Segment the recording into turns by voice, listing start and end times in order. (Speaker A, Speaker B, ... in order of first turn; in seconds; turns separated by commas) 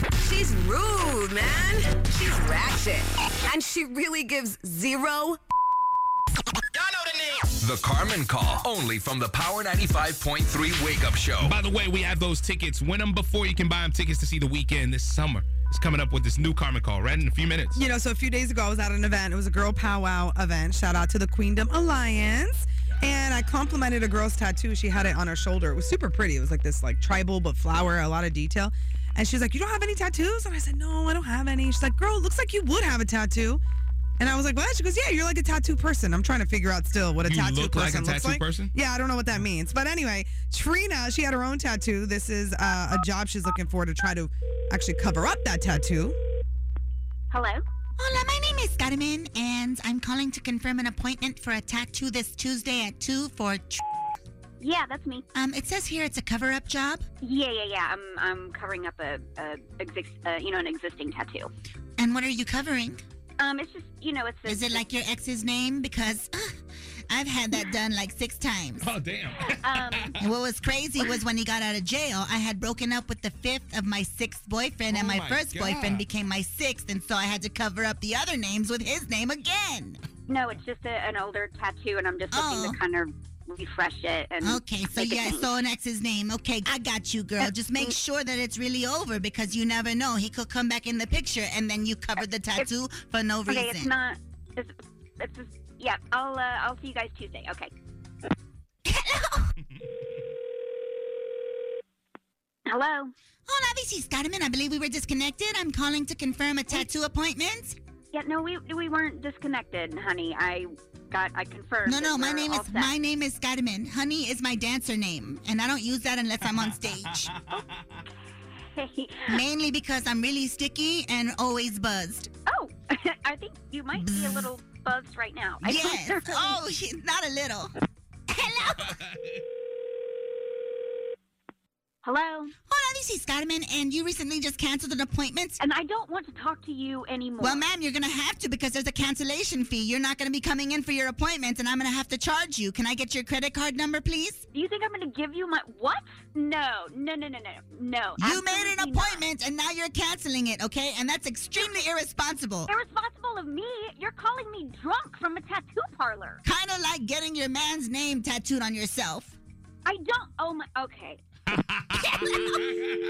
Speaker A: 0.2-5.4, Speaker B: 6.8-11.6, Speaker C: 11.4-17.8, Speaker D: 17.8-33.6, Speaker D: 34.2-46.2, Speaker C: 37.2-38.7, Speaker E: 47.3-47.6, Speaker F: 48.0-53.8, Speaker E: 54.6-55.2, Speaker F: 55.3-57.0, Speaker E: 57.2-61.5, Speaker F: 62.0-63.0, Speaker E: 63.4-64.8, Speaker F: 64.5-68.9, Speaker C: 68.8-70.2, Speaker E: 69.4-70.2, Speaker F: 70.2-80.0, Speaker C: 74.9-76.0, Speaker E: 80.3-85.5, Speaker F: 82.3-82.8, Speaker F: 84.4-93.9, Speaker E: 87.4-88.0, Speaker E: 93.5-97.7, Speaker F: 98.8-99.5, Speaker E: 102.7-103.1, Speaker F: 103.5-107.8, Speaker E: 108.1-112.9, Speaker F: 111.8-117.3, Speaker E: 118.7-119.4, Speaker F: 119.3-122.3, Speaker E: 122.5-126.6, Speaker F: 123.9-124.5, Speaker F: 125.6-127.7, Speaker F: 128.3-129.0, Speaker E: 132.0-132.5, Speaker F: 132.7-135.6, Speaker E: 135.6-137.6, Speaker F: 137.4-144.4, Speaker E: 144.5-149.2, Speaker F: 148.2-152.7, Speaker E: 152.7-156.4, Speaker F: 156.4-159.3, Speaker E: 159.8-161.2, Speaker F: 162.0-162.7